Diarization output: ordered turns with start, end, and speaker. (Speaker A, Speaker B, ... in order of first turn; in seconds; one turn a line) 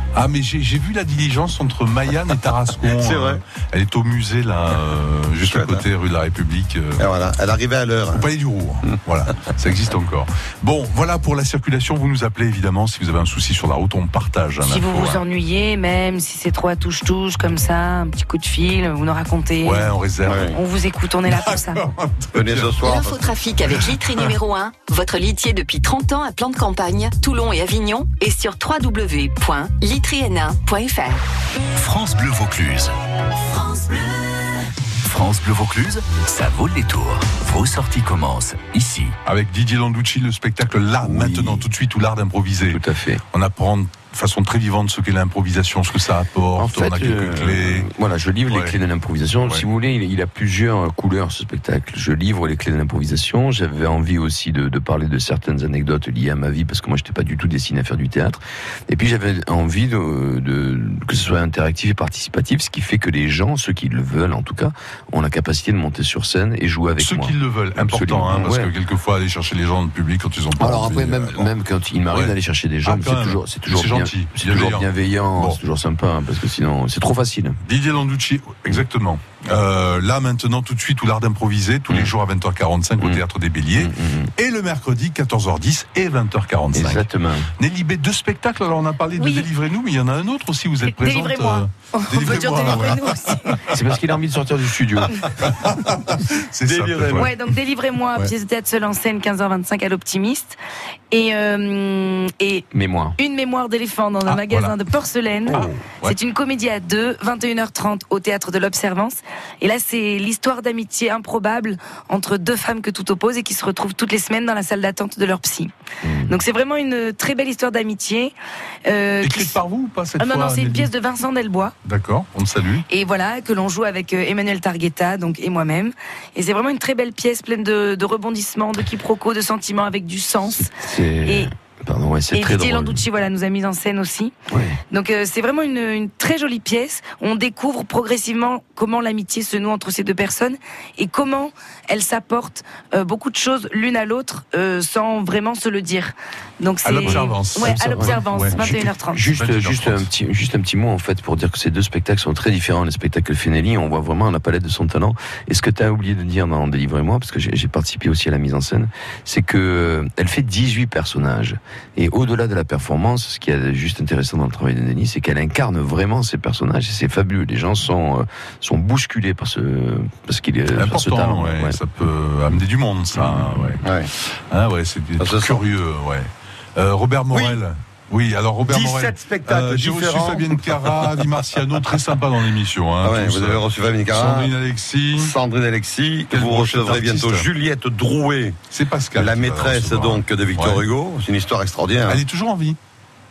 Speaker A: 0.1-7.0
Speaker B: 2.9-3.4
Speaker B: 5.4-5.8
Speaker B: 7.0-8.2
Speaker A: 8.1-15.2
Speaker C: 14.6-19.9
Speaker A: 19.6-20.5
Speaker B: 20.3-20.5
Speaker C: 20.5-21.8
Speaker A: 21.3-22.8
Speaker B: 22.3-23.3
Speaker D: 22.8-31.2
Speaker E: 31.7-32.9
Speaker E: 35.0-39.2
Speaker A: 39.2-47.9
Speaker F: 41.0-41.6
Speaker F: 42.7-43.2
Speaker F: 46.5-68.7
Speaker A: 48.5-48.8
Speaker A: 67.0-71.5
Speaker F: 70.6-77.6
Speaker A: 72.1-75.6
Speaker A: 77.6-87.1
Speaker F: 83.0-84.3
Speaker F: 86.7-87.5
Speaker A: 87.6-93.8
Speaker C: 89.2-89.5
Speaker C: 90.8-93.6
Speaker F: 93.7-95.2
Speaker A: 95.4-97.3
Speaker B: 96.6-97.3
Speaker C: 97.1-100.6
Speaker C: 101.1-102.7
Speaker F: 102.7-103.1
Speaker C: 103.2-115.7
Speaker A: 104.2-104.8
Speaker A: 105.5-106.2
Speaker F: 116.0-116.3
Speaker C: 116.3-118.3
Speaker C: 118.8-119.6
Speaker A: 119.2-120.9
Speaker C: 120.2-121.7
Speaker A: 121.8-122.8
Speaker C: 122.9-130.7
Speaker F: 130.5-133.0
Speaker C: 132.3-134.3
Speaker F: 134.5-134.8
Speaker C: 134.9-149.2
Speaker A: 146.8-150.1
Speaker F: 147.0-171.8
Speaker A: 170.7-173.8
Speaker F: 173.3-173.6
Speaker B: 173.8-174.1
Speaker A: 174.5-185.3
Speaker B: 175.2-175.6
Speaker B: 177.3-177.6
Speaker B: 178.6-181.2
Speaker B: 183.0-184.5
Speaker B: 185.2-188.6
Speaker A: 186.3-187.5
Speaker A: 188.7-190.8
Speaker B: 189.1-192.2
Speaker A: 192.1-192.8